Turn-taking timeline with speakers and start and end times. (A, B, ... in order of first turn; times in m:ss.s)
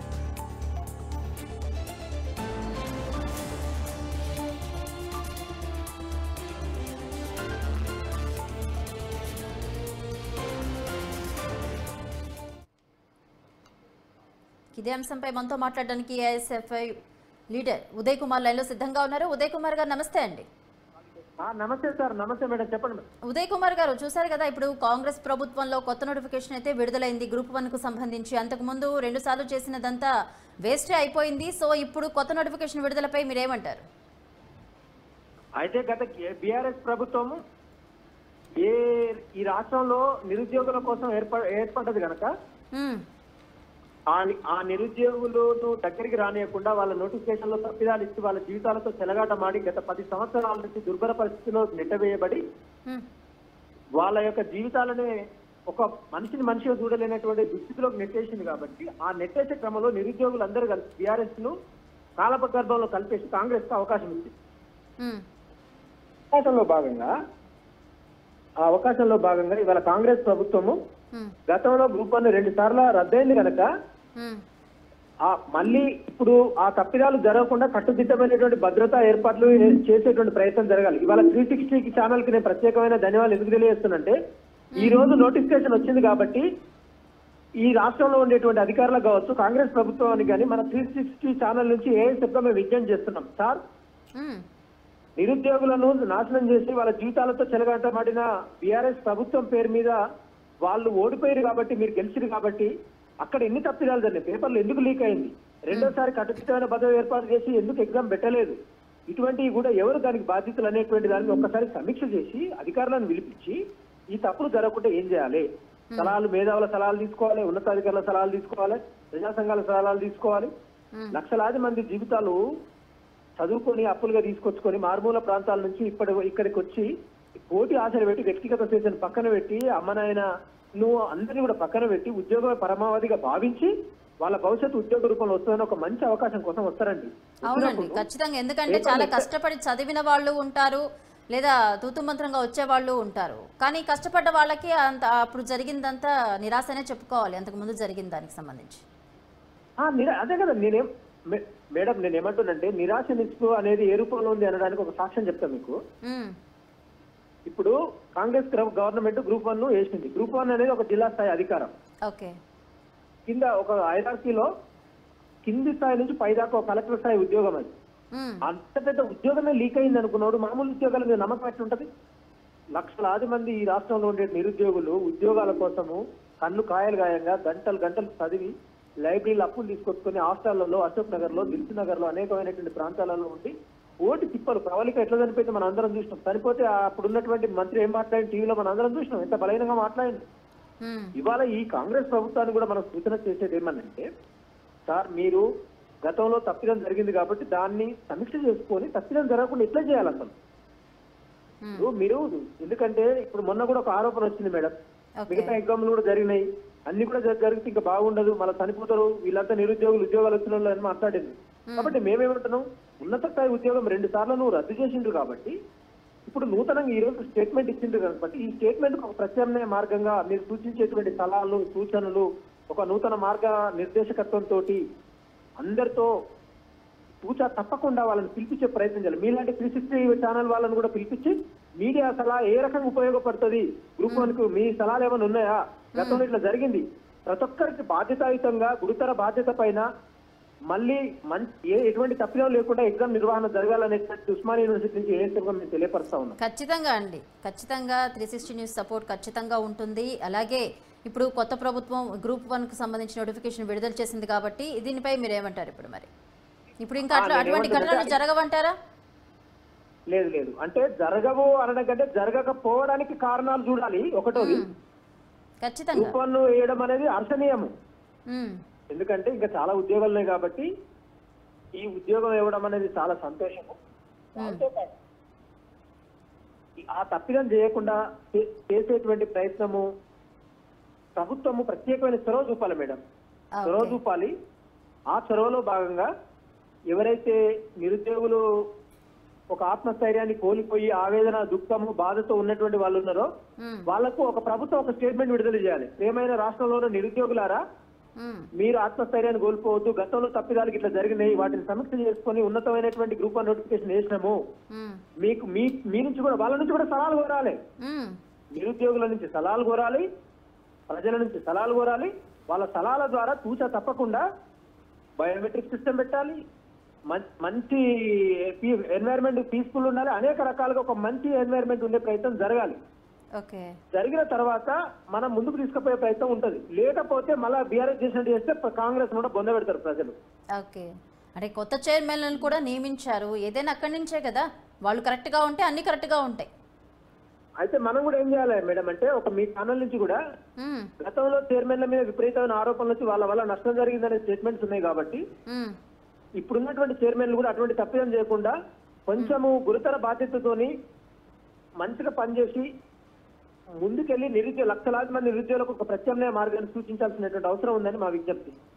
0:14.8-0:17.0 A
0:17.5-0:20.4 A
0:21.4-0:23.0 B
0:23.3-0:30.1 A
0:30.6-0:33.8 A
0:35.6-0:37.4 B
0:38.6-0:42.3 B
0:42.7-0:43.0 A
0:44.1-0:52.4 B
0:54.0-0:55.1 B
0:55.7-1:01.5 B
1:02.2-1:04.3 B
1:06.3-1:07.1 B
1:08.6-1:10.8 B
1:11.5-1:13.6 B
1:15.3-1:24.1 B
1:24.8-1:25.1 A
1:24.8-1:26.4 B
1:27.6-1:33.6 B
1:34.2-1:34.4 A
1:35.2-1:39.9 B
1:40.6-1:42.7 B
1:43.2-1:48.6 B
1:49.1-1:53.6 B
1:54.1-1:55.4 B
1:56.0-2:00.5 B
2:01.1-2:02.4 B
2:03.4-2:06.9 B
2:07.5-2:10.2 B
2:10.8-2:13.7 B
2:14.2-2:18.0 B
2:17.5-2:28.8 A
2:18.7-2:19.3 B
2:29.8-2:35.8 B
2:36.0-2:36.3 A
2:37.5-2:41.7 B
2:42.1-2:42.3 A
2:43.3-2:44.5 B
2:45.4-2:47.7 B
2:48.1-2:48.4 A
2:48.4-2:51.9 B
2:52.8-2:58.5 B
2:59.0-3:10.2 B
3:10.8-3:11.1 A
3:11.2-3:14.1 B
3:14.9-3:15.4 B
3:16.0-3:20.3 B
3:21.7-3:24.7 B
3:25.2-3:25.5 A
3:25.3-3:35.5 B
3:31.7-3:31.9 A
3:36.2-3:44.8 B
3:45.6-3:46.1 B
3:47.2-3:59.8 B
3:56.0-3:56.2 A
4:00.7-4:06.4 B
4:06.4-4:16.1 A
4:16.8-4:18.7 A
4:17.1-4:18.1 B
4:20.1-4:24.6 B
4:24.3-4:24.7 A
4:25.6-4:26.2 A
4:25.9-4:27.7 B
4:28.3-4:28.6 A
4:28.9-4:30.7 B
4:31.8-4:33.7 B
4:34.4-4:34.9 B
4:36.8-4:39.8 B
4:41.2-4:43.0 B
4:43.6-4:44.0 A
4:43.6-4:44.3 B
4:45.1-4:46.1 B
4:46.9-4:48.4 B
4:49.5-4:53.3 B
4:53.6-4:53.8 A
4:53.9-4:57.6 B
4:58.2-4:58.5 A
4:58.6-5:04.4 B
5:04.7-5:05.0 A
5:05.2-5:07.6 B
5:07.8-5:08.2 A
5:08.6-5:10.0 B
5:10.9-5:14.2 B
5:15.2-5:16.4 B
5:17.1-5:22.8 B
5:23.4-5:23.7 A
5:23.9-5:30.1 B
5:30.6-5:36.5 A
5:37.6-5:40.2 B
5:40.6-5:40.9 A
5:41.0-5:45.2 B
5:45.5-5:45.7 A
5:46.4-5:48.5 B
5:49.1-5:50.7 B
5:51.8-5:52.7 B
5:53.8-5:58.5 B